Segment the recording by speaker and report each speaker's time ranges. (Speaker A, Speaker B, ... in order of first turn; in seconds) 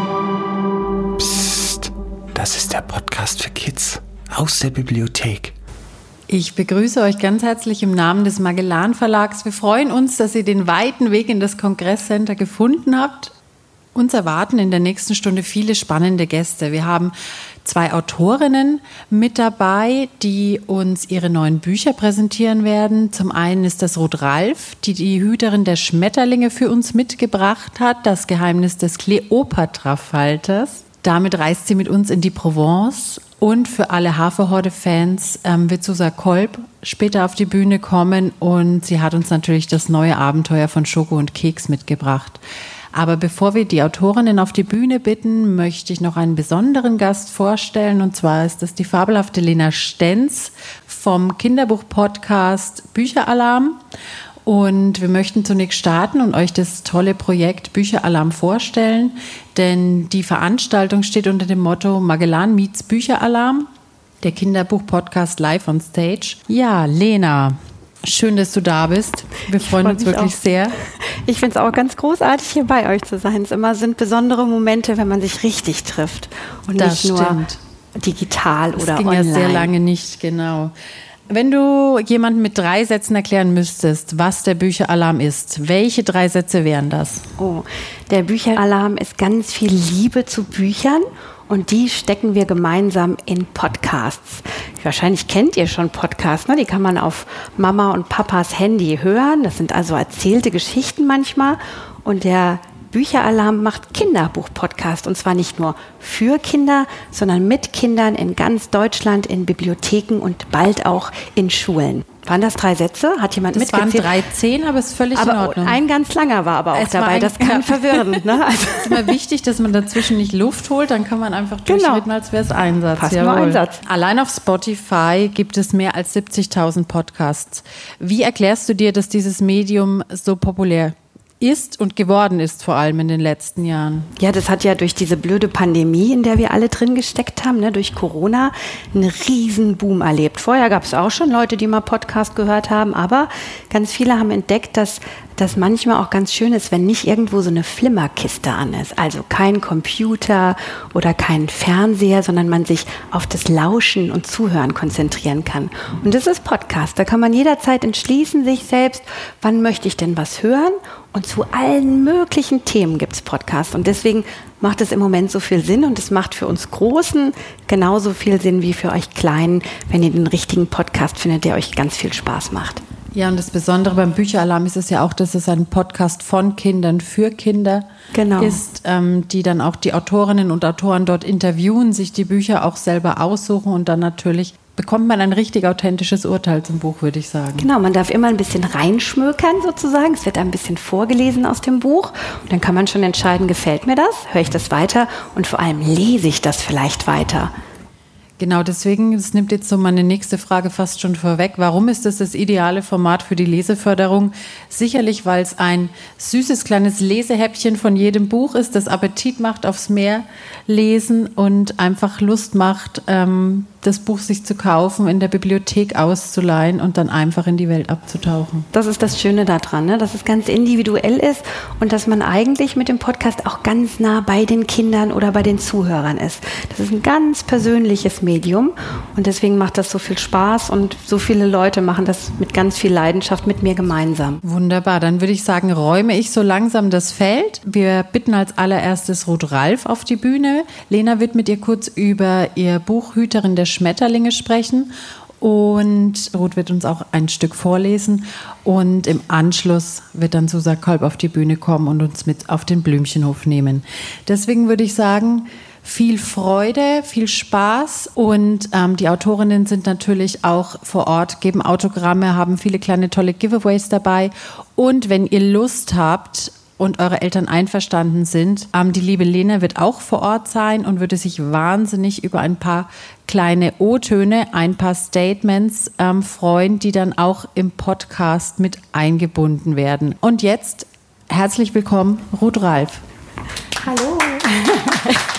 Speaker A: 1.2-5.5
Speaker B: 6.3-13.3, 13.9-17.1, 17.6-42.4, 42.9-53.8, 54.5-63.7, 64.2-70.8, 76.8-77.6, 78.8-80.7, 81.3-87.2, 113.5-115.8, 116.7-134.1, 173.1-177.8, 178.4-187.7, 198.4-218.7, 234.4-244.9, 245.4-283.0
Speaker C: 69.6-70.4, 71.2-77.4, 78.0-79.7, 87.4-114.2, 115.2-119.2, 121.7-122.1, 123.0-123.8, 134.2-172.8, 178.1-178.6, 187.6-197.5, 218.7-234.4, 283.8-285.2